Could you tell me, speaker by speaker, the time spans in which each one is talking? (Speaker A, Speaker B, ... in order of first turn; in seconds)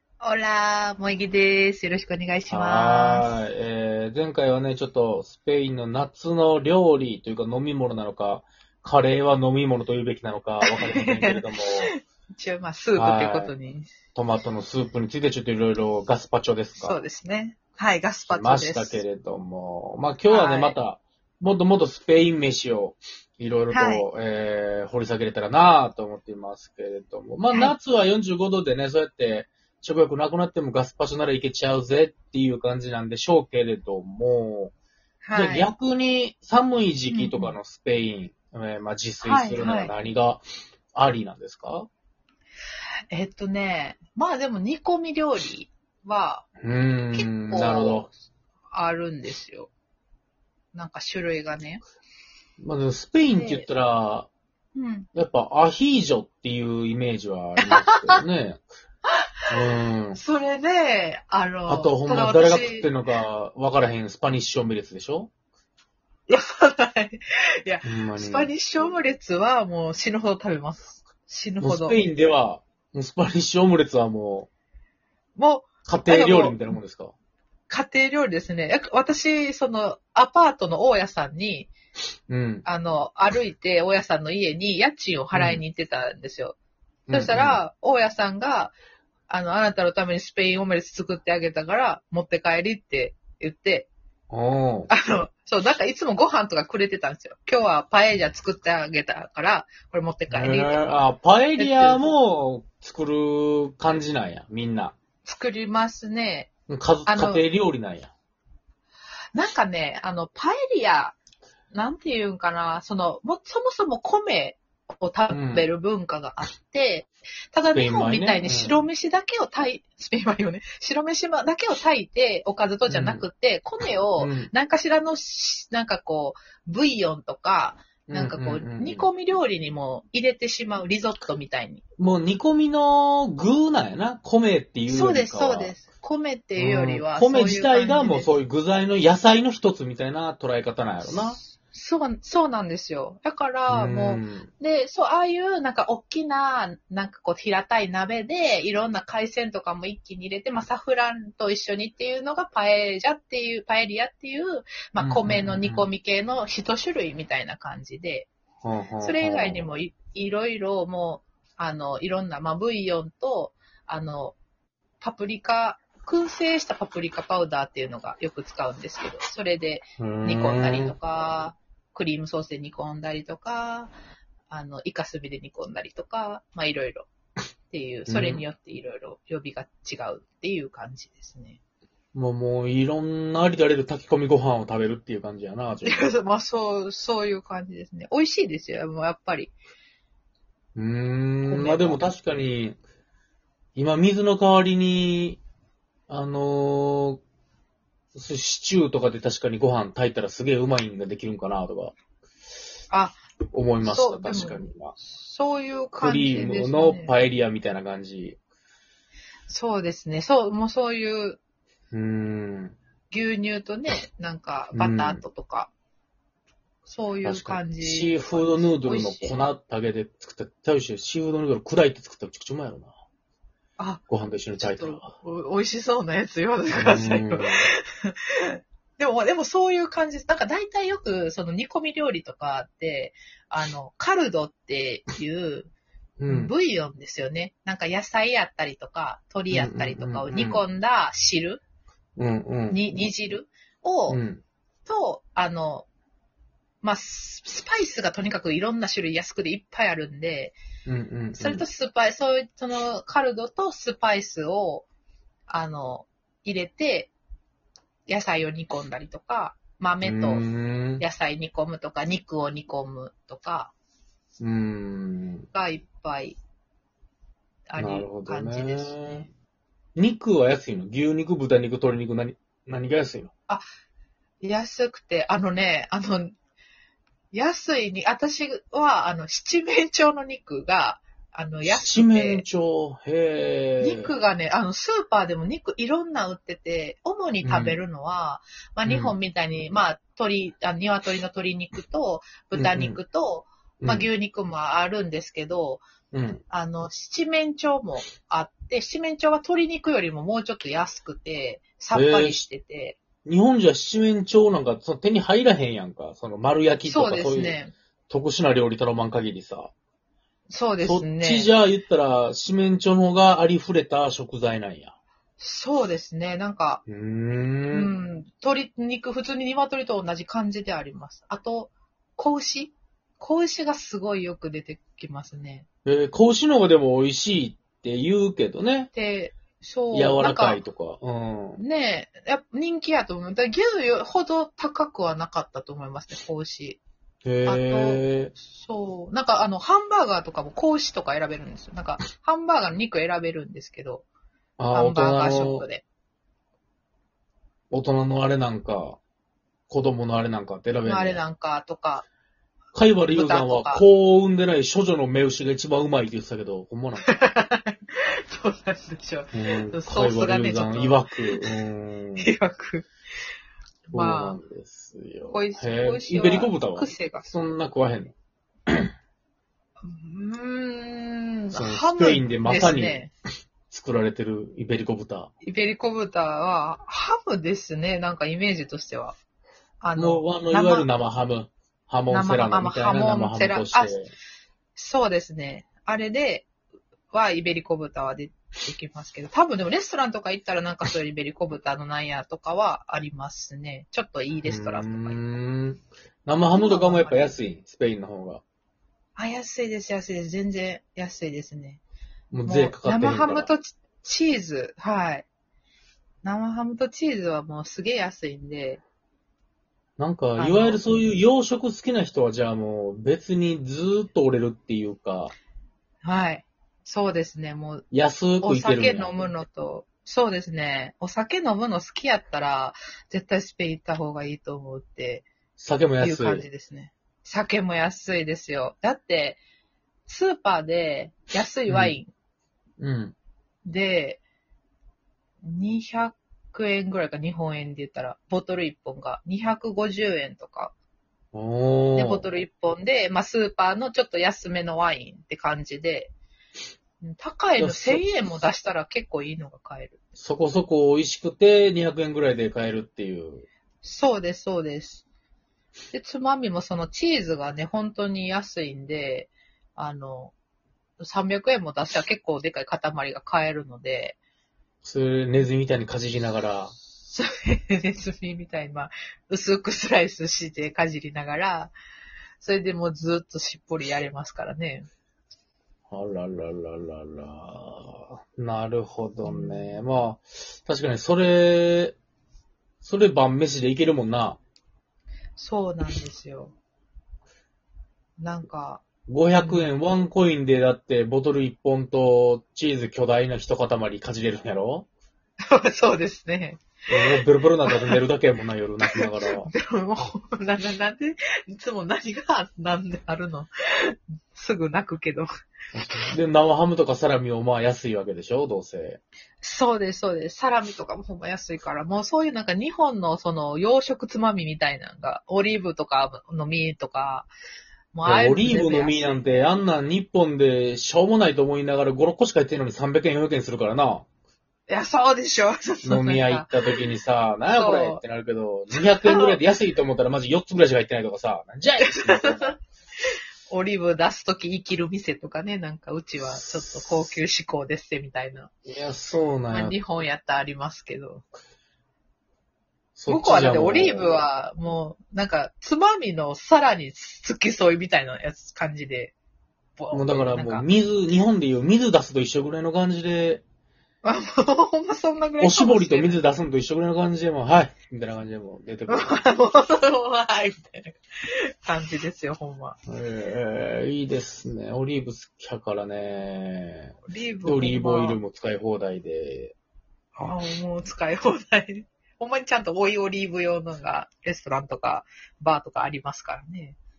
Speaker A: 0.2-3.4, 10.6-13.9, 16.8-19.0, 20.3-20.8, 23.7-24.1, 27.5-27.8, 35.2-35.7, 37.1-37.5, 39.2-39.9, 43.1-46.5, 47.1-48.1, 48.7-49.7, 50.7-51.8, 53.3-53.7, 54.7-55.1, 57.6-58.2, 60.1-62.9, 66.3-72.0, 75.4-76.6, 77.7-81.7, 82.7-86.6, 87.1-88.8, 89.3-93.9, 94.9-101.0, 101.6-102.1, 105.2-106.5, 107.1-107.4, 109.3-111.2, 111.7-131.8, 134.9-138.3, 141.0-158.3, 159.0-164.4, 165.0-173.9, 174.5-177.1, 177.7-181.6, 185.8-189.5, 191.4-192.1, 202.9-203.2, 203.8-207.2, 209.5-211.4, 213.1-215.7, 216.8-219.4, 223.8-224.0, 224.6-235.7, 236.3-241.6, 242.7-244.2, 244.9-245.9, 246.8-250.6, 251.3-254.9, 255.5-257.1, 258.1-260.5, 261.0-263.7, 265.5-266.4, 267.7-269.3, 274.4-276.3, 277.3-282.4, 283.8-295.8, 296.5-303.0, 306.8-307.7, 310.5-311.5, 315.4-316.8, 317.7-325.6, 328.9-330.6, 331.6-336.8, 337.4-344.1, 344.7-345.8, 350.8-352.0, 353.1-353.8, 357.0-361.6, 362.2-362.9, 363.9-364.4, 365.3-367.3, 369.8-373.1, 375.4-379.2, 379.8-380.9, 382.1-384.0, 384.8-386.5, 387.1-395.2, 396.5-397.4, 399.1-401.8, 402.4-405.3, 406.2-408.8, 410.4-410.8, 416.0-417.8, 418.4-425.3, 426.0-429.4, 430.1-432.1, 433.6-434.2, 435.4-440.7, 441.9-446.1, 447.0-450.0, 453.8-455.0, 455.9-460.3, 461.0-464.2, 467.1-471.7, 472.4-474.9, 479.2-479.9, 485.4-486.5, 488.2-488.8, 489.4-489.7, 495.5-498.0, 498.8-505.3, 509.4-517.3, 517.9-519.0, 524.7-526.8, 527.5-528.0, 528.8-529.4, 531.8-532.5, 533.5-538.5, 539.5-541.2, 543.1-549.1, 549.8-550.6, 554.0-556.2, 558.9-562.8, 567.1-568.2, 570.1-576.8
Speaker B: 2.5-11.9, 13.0-13.5, 14.1-17.0, 18.3-34.7, 35.3-41.9, 46.6-48.1, 52.6-54.3, 55.1-58.6, 59.5-60.2, 61.7-65.3, 67.8-68.5, 71.6-74.5, 75.9-77.1, 82.3-82.7, 85.3-85.6, 87.1-87.6, 94.3-94.9, 100.3-105.0, 106.7-108.1, 115.3-115.7, 117.7-118.8, 122.9-123.2, 124.2-124.5, 128.1-129.1, 132.0-135.8, 136.6-141.4, 143.7-144.5, 155.0-155.9, 158.6-159.7, 170.0-170.9, 178.1-178.4, 182.1-186.1, 190.8-192.8, 193.8-195.4, 196.1-197.2, 198.1-201.9, 203.5-205.0, 206.0-208.4, 211.9-212.8, 214.7-215.2, 217.2-222.9, 224.1-225.1, 226.7-227.7, 236.2-236.5, 239.5-240.6, 242.2-242.8, 244.1-244.4, 250.8-251.7, 260.0-261.0, 264.4-265.5, 267.8-269.3, 269.9-273.3, 281.6-284.1, 287.4-287.8, 288.9-289.1, 292.5-293.0, 293.8-294.1, 296.1-296.4, 301.9-302.4, 303.2-307.6, 308.1-309.7, 310.8-314.9, 316.9-317.9, 325.8-328.9, 329.9-331.6, 337.2-338.3, 344.6-345.7, 347.7-349.0, 349.7-351.2, 352.8-357.1, 359.3-362.3, 363.9-368.1, 371.5-373.0, 373.7-375.3, 379.9-384.1, 394.4-398.4, 402.3-403.5, 410.0-415.3, 417.9-419.3, 425.6-426.5, 431.7-431.9, 432.8-433.1, 441.3-442.3, 447.6-448.1, 450.2-453.4, 464.8-466.7, 475.9-482.0, 482.8-484.4, 489.1-494.9, 496.9-499.5, 505.7-509.0, 518.0-524.0, 525.8-532.5, 536.2-537.1, 538.6-539.8, 543.0-544.2, 549.9-553.4, 555.4-559.2, 562.9-566.9, 567.4-569.5